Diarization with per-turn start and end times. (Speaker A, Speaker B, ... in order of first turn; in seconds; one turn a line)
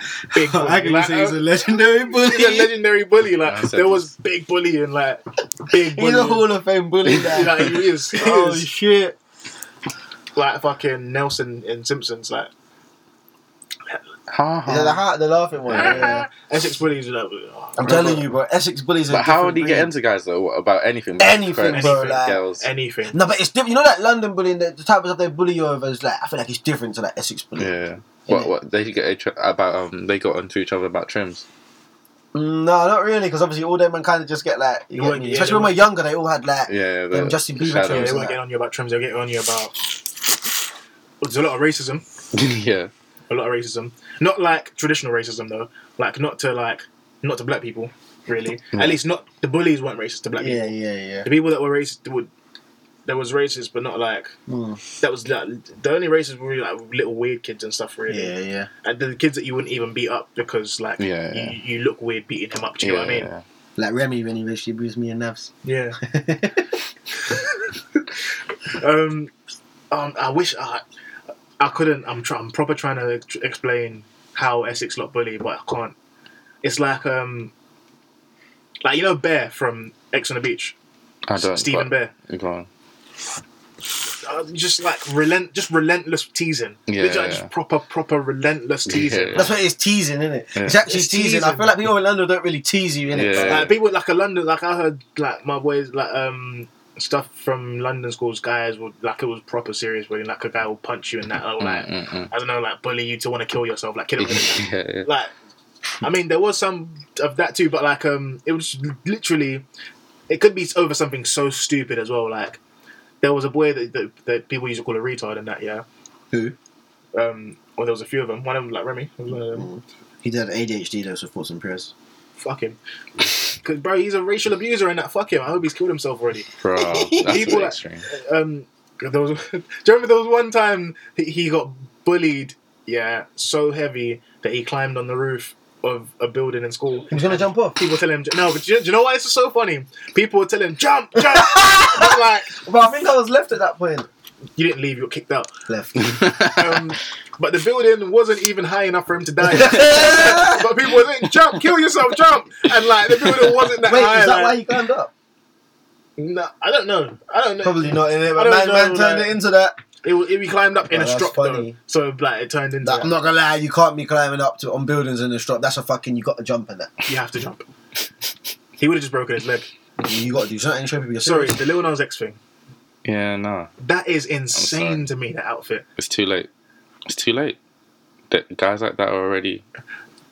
Speaker A: 0.3-1.4
Speaker B: 0.3-2.7
Speaker A: 2.1-6.5
Speaker C: 3.4-4.1
Speaker B: 5.9-9.2
Speaker A: 7.1-8.7
Speaker A: 10.3-12.5
Speaker C: 14.3-15.0
Speaker B: 14.7-16.3
Speaker C: 15.7-16.1
Speaker A: 15.7-18.3
Speaker B: 17.8-19.9
Speaker C: 19.1-22.6
Speaker B: 21.2-22.4
Speaker A: 21.7-23.2
Speaker B: 23.1-27.7
Speaker C: 27.6-31.4
Speaker B: 32.3-38.4
Speaker A: 34.9-35.8
Speaker C: 36.7-38.2
Speaker A: 37.8-39.8
Speaker A: 41.2-42.0
Speaker C: 42.3-42.9
Speaker A: 43.3-50.7
Speaker C: 48.7-49.0
Speaker B: 50.4-51.3
Speaker A: 51.2-52.3
Speaker A: 53.0-54.3
Speaker B: 54.5-54.8
Speaker A: 55.0-63.3
Speaker B: 58.1-58.7
Speaker C: 61.0-61.6
Speaker C: 62.8-63.4
Speaker B: 63.8-66.7
Speaker A: 65.6-66.0
Speaker A: 67.2-69.3
Speaker A: 69.9-70.8
Speaker A: 71.6-75.9
Speaker A: 76.6-77.5
Speaker A: 78.8-80.7
Speaker C: 81.3-82.7
Speaker A: 81.3-82.1
Speaker A: 84.2-89.5
Speaker C: 86.9-87.5
Speaker C: 88.9-89.5
Speaker B: 89.3-93.7
Speaker A: 90.8-91.7
Speaker C: 93.1-93.7
Speaker A: 93.3-105.3
Speaker C: 101.6-102.3
Speaker C: 104.2-105.1
Speaker A: 106.0-109.6
Speaker A: 110.3-112.6
Speaker A: 113.2-115.8
Speaker A: 117.1-119.7
Speaker B: 119.5-121.9
Speaker A: 122.4-126.5
Speaker C: 126.6-128.1
Speaker B: 126.8-127.5
Speaker A: 127.2-142.6
Speaker B: 137.1-137.8
Speaker B: 141.3-144.1
Speaker A: 144.6-145.5
Speaker B: 145.7-146.1
Speaker C: 146.0-146.8
Speaker A: 146.4-154.6
Speaker B: 149.5-150.7
Speaker B: 153.8-155.1
Speaker A: 156.2-159.3
Speaker B: 157.6-159.8
Speaker A: 160.0-163.1
Speaker B: 160.9-161.7
Speaker B: 162.8-166.9
Speaker A: 167.1-167.6
Speaker A: 168.8-169.7
Speaker B: 170.0-171.6
Speaker A: 171.2-172.4
Speaker C: 173.0-173.7
Speaker A: 173.8-175.8
Speaker C: 174.5-175.1
Speaker C: 176.0-176.5
Speaker C: 177.1-177.6
Speaker C: 178.3-179.6